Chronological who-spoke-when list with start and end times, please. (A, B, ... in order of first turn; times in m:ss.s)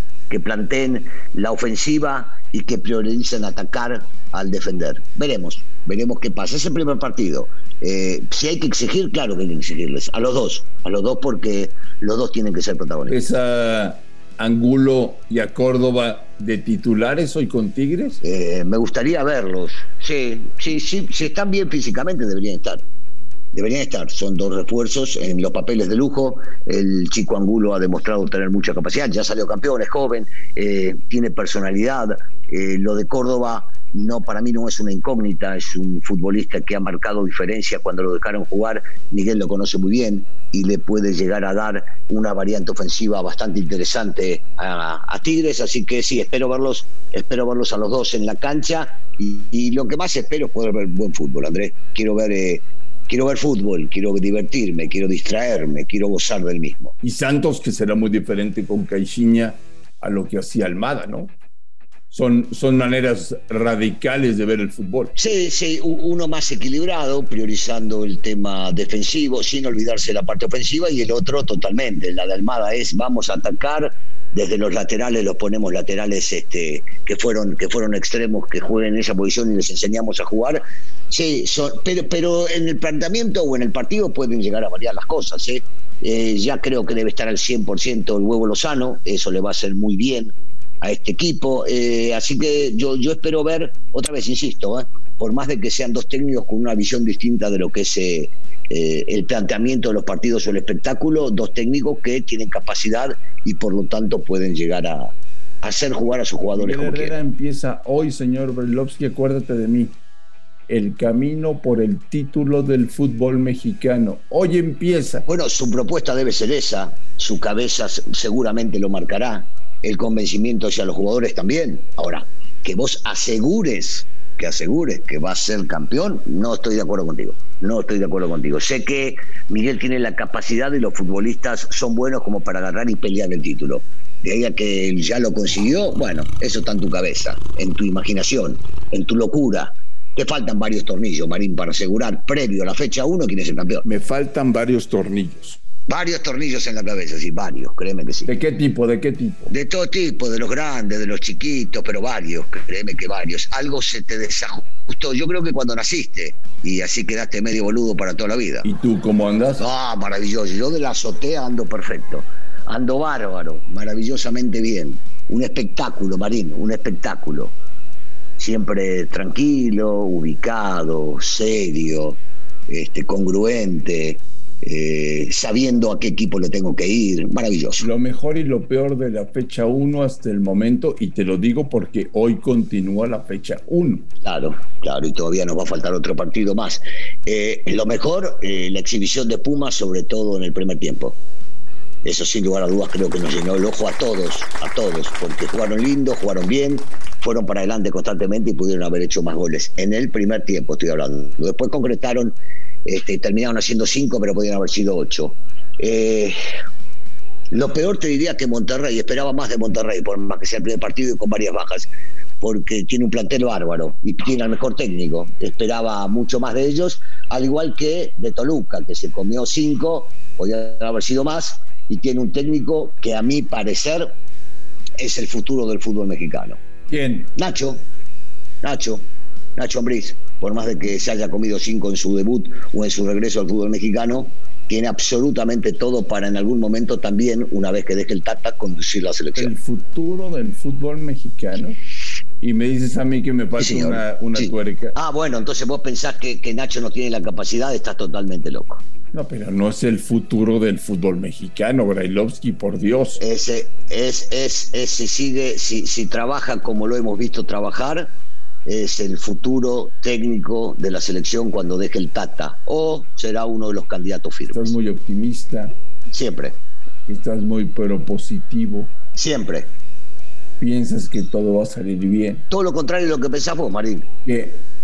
0:00.3-0:13.2 A
0:13.1-0:18.2 B
0:18.2-0:22.8 A
0:23.5-0:56.9 A
0:57.0-1:01.4 B
1:02.1-1:05.2 B
1:05.2-1:47.2 A
1:46.5-1:50.0 B
1:50.7-1:55.2 B
1:55.3-2:23.8 A
2:23.8-2:25.6 B
2:25.9-2:28.3 A
2:28.3-2:29.5 B
2:29.5-2:38.7 A
2:38.6-2:39.6 B
2:39.6-2:47.6 A
2:48.4-2:57.8 A
2:57.8-3:04.1 B
3:04.2-3:11.2 A
3:12.0-3:26.4 A
3:27.5-3:44.1 A
3:45.0-3:46.6 A
3:46.9-3:47.3 B
3:47.4-3:47.8 A
3:48.6-3:59.5 A
3:59.4-4:01.8 B
4:02.4-4:05.0 B
4:03.6-4:08.8 A
4:09.1-4:13.2 B
4:13.2-4:18.1 A
4:18.6-4:24.8 A
4:24.5-4:25.7 B
4:26.1-4:26.6 A
4:27.1-4:28.9 B
4:29.2-4:29.7 A
4:30.6-4:32.4 B
4:32.5-4:34.1 A
4:34.2-4:34.6 B